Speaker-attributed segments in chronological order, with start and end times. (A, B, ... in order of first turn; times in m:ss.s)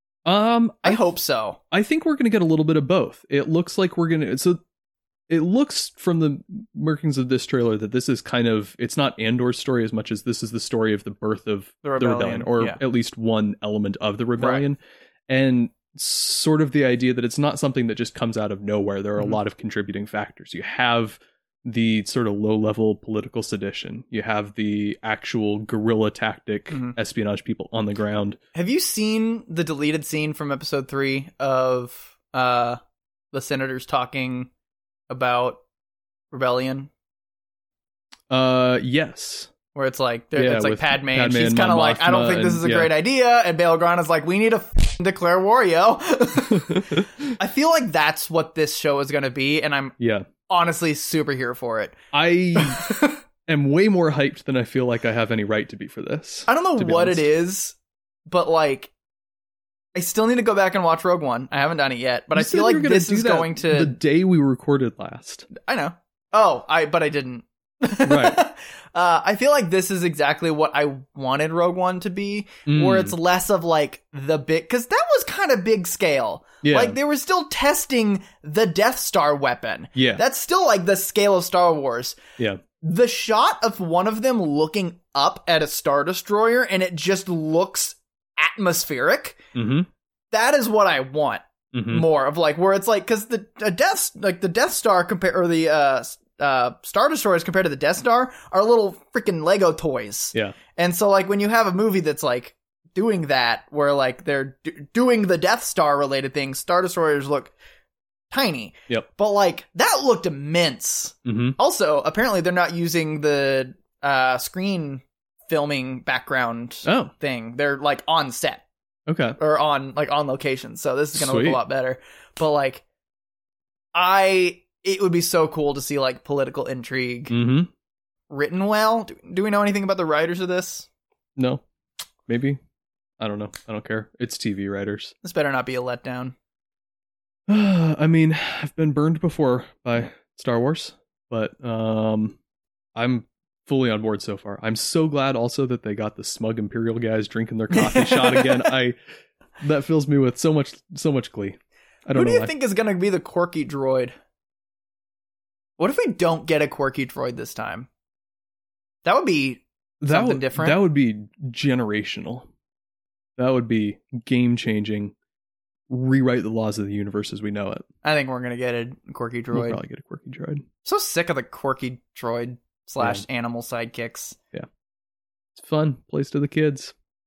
0:00.2-0:01.0 A
0:00.8-0:01.6 B
0:01.7-0:04.6 A
0:05.3-0:28.4 A
0:11.8-0:12.8 B
0:14.4-0:14.6 B
0:28.5-0:32.8 B
0:33.3-0:34.5 B
0:35.1-0:35.6 B
0:36.3-0:36.9 B
0:38.3-0:39.5 A
0:39.7-0:49.9 B
0:40.4-0:42.9 A
0:46.5-0:47.3 A
0:50.0-0:50.3 A
0:50.5-0:52.0 B
0:52.1-0:52.9 A
0:52.5-0:53.2 B
0:53.5-0:57.3 A
0:56.5-0:57.7 B
0:58.3-0:58.9 B
0:59.9-1:03.9 B
1:02.3-1:05.5 A
1:05.5-1:22.2 B
1:08.0-1:08.4 A
1:12.7-1:13.1 A
1:16.6-1:17.0 A
1:20.0-1:20.2 A
1:22.8-1:29.4 B
1:29.5-1:29.9 A
1:30.3-1:47.5 B
1:31.7-1:32.0 A
1:48.3-1:58.6 B
1:51.2-1:51.6 A
1:56.8-1:57.1 A
1:59.1-1:59.4 A
1:59.4-2:02.8 B
2:01.1-2:01.6 A
2:03.9-2:07.3 B
2:07.3-2:07.7 A
2:08.3-2:10.9 B
2:11.4-2:11.6 A
2:12.3-2:12.6 A
2:13.2-2:15.1 A
2:15.2-2:16.3 B
2:17.5-2:22.4 A
2:22.9-2:29.0 A
2:27.7-2:28.7 B
2:29.6-2:32.5 A
2:32.1-2:34.1 B
2:35.8-2:37.9 B
2:39.0-2:40.8 B
2:40.0-2:42.5 A
2:43.4-2:45.1 A
2:45.9-2:47.8 A
2:48.0-2:49.8 B
2:49.5-2:50.6 A
2:50.8-2:54.4 B
2:55.6-2:56.9 A